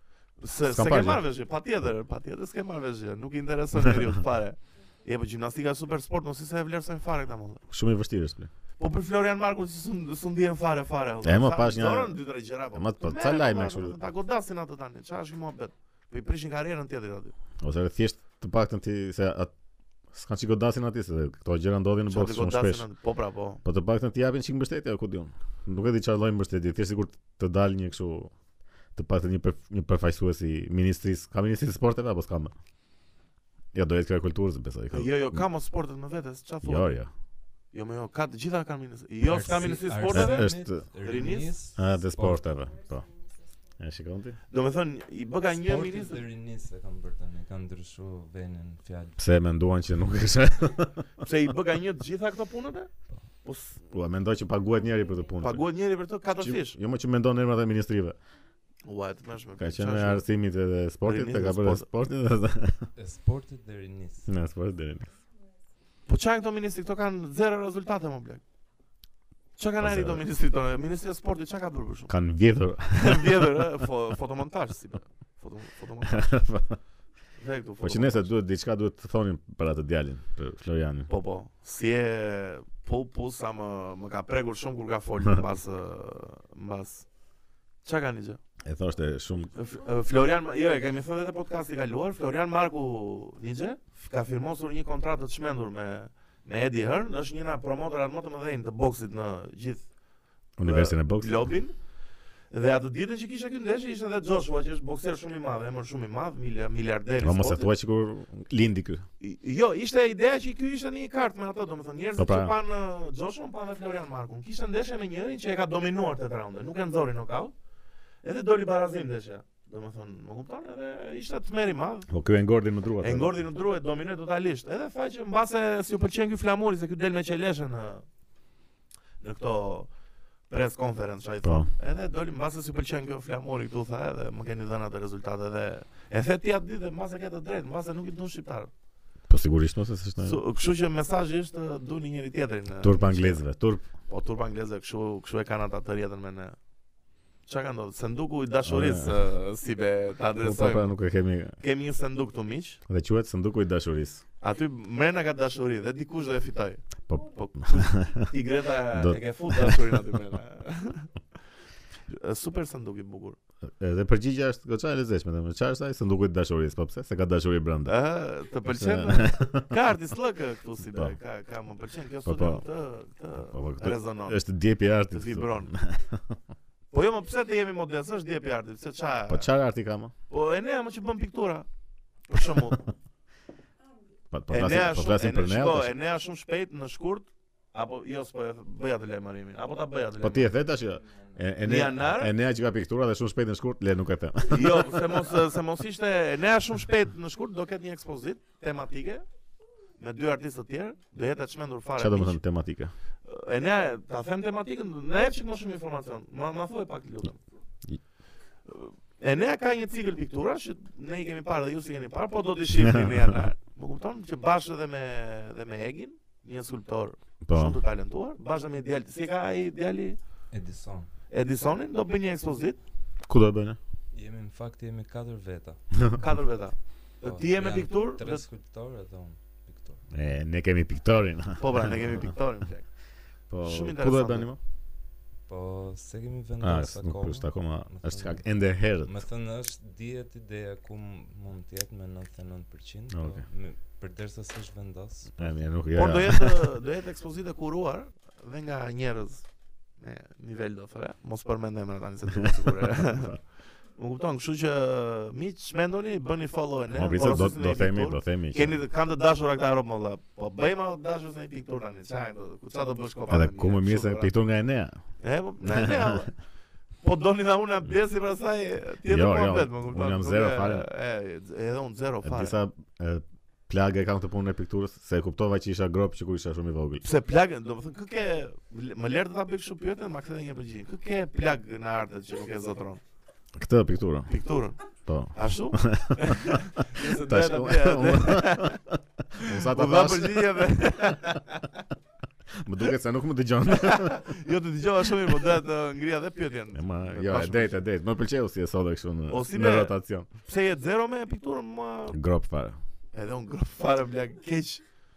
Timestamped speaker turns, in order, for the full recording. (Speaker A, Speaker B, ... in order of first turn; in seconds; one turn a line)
Speaker A: 0.4-7.6
Speaker B: 0.6-1.2
Speaker B: 7.7-8.5
Speaker A: 8.8-17.3
Speaker B: 11.2-12.2
Speaker B: 12.7-14.0
Speaker B: 17.6-19.5
Speaker B: 20.1-22.9
Speaker A: 22.1-23.6
Speaker B: 23.6-28.3
Speaker B: 28.9-32.5
Speaker B: 33.7-35.4
Speaker A: 34.9-37.0
Speaker B: 36.6-37.1
Speaker A: 37.7-41.6
Speaker C: 39.2-42.5
Speaker B: 40.1-40.8
Speaker B: 41.8-43.1
Speaker B: 43.8-44.4
Speaker A: 44.5-46.2
Speaker C: 45.5-49.2
Speaker B: 49.2-51.1
Speaker A: 51.2-52.9
Speaker A: 53.4-53.8
Speaker B: 53.9-55.7
Speaker A: 55.4-56.8
Speaker B: 56.4-58.2
Speaker A: 58.9-60.2
Speaker B: 59.6-62.9
Speaker A: 61.0-61.9
Speaker C: 63.0-64.3
Speaker B: 64.3-65.1
Speaker A: 66.1-68.4
Speaker A: 69.6-72.1
Speaker B: 69.8-70.2
Speaker B: 72.1-73.7
Speaker A: 72.9-76.4
Speaker B: 76.1-76.8
Speaker A: 77.4-78.3
Speaker B: 77.8-81.1
Speaker A: 81.1-87.1
Speaker A: 87.8-88.4
Speaker B: 88.6-89.5
Speaker A: 89.5-99.9
Speaker B: 100.6-101.4
Speaker A: 100.6-101.7
Speaker A: 102.5-107.7
Speaker B: 107.2-109.0
Speaker A: 109.2-117.5
Speaker B: 112.2-112.6
Speaker A: 118.2-122.1
Speaker B: 122.1-123.4
Speaker A: 123.0-128.1
Speaker A: 129.2-129.9
Speaker A: 130.5-138.7
Speaker B: 131.4-131.7
Speaker B: 139.3-140.4
Speaker A: 140.2-143.4
Speaker B: 142.8-143.8
Speaker A: 144.1-146.6
Speaker A: 147.5-150.9
Speaker B: 148.7-149.2
Speaker B: 150.4-151.6
Speaker A: 151.6-152.8
Speaker B: 152.9-154.2
Speaker A: 154.4-161.1
Speaker B: 157.1-158.3
Speaker B: 158.9-160.0
Speaker A: 162.1-163.4
Speaker B: 163.8-167.9
Speaker A: 167.8-174.4
Speaker B: 168.8-169.7
Speaker B: 172.2-172.7
Speaker B: 173.4-176.4
Speaker A: 175.1-175.7
Speaker A: 176.9-179.5
Speaker B: 179.3-180.1
Speaker A: 180.3-181.7
Speaker A: 182.3-182.8
Speaker B: 184.3-185.9
Speaker A: 184.5-190.5
Speaker B: 190.2-195.4
Speaker A: 191.6-192.3
Speaker A: 194.5-199.2
Speaker A: 200.0-202.4
Speaker B: 202.0-202.9
Speaker A: 203.2-207.4
Speaker A: 208.7-220.2
Speaker B: 212.8-213.1
Speaker B: 217.4-217.8
Speaker C: 220.5-221.1
Speaker A: 221.3-222.8
Speaker B: 223.2-223.8
Speaker C: 224.1-226.0
Speaker A: 226.1-228.4
Speaker C: 227.2-230.0
Speaker B: 230.1-232.3
Speaker A: 231.6-232.9
Speaker B: 233.5-234.6
Speaker A: 233.6-234.5
Speaker C: 235.5-245.6
Speaker B: 236.6-239.1
Speaker B: 243.1-243.4
Speaker B: 245.4-246.7
Speaker A: 245.9-249.5
Speaker A: 250.0-253.4
Speaker B: 252.4-253.3
Speaker A: 254.0-264.3
Speaker B: 256.9-258.8
Speaker B: 263.3-265.0
Speaker A: 265.2-266.3
Speaker B: 265.6-266.2
Speaker A: 267.0-272.6
Speaker B: 269.1-270.9
Speaker B: 272.2-277.0
Speaker A: 277.0-283.0
Speaker B: 283.6-284.3
Speaker A: 284.3-284.8
Speaker B: 285.1-290.8
Speaker A: 285.3-291.8
Speaker B: 292.5-294.3
Speaker A: 293.7-297.8
Speaker B: 296.7-300.3
Speaker A: 299.3-302.2
Speaker B: 302.1-302.8
Speaker A: 303.1-304.8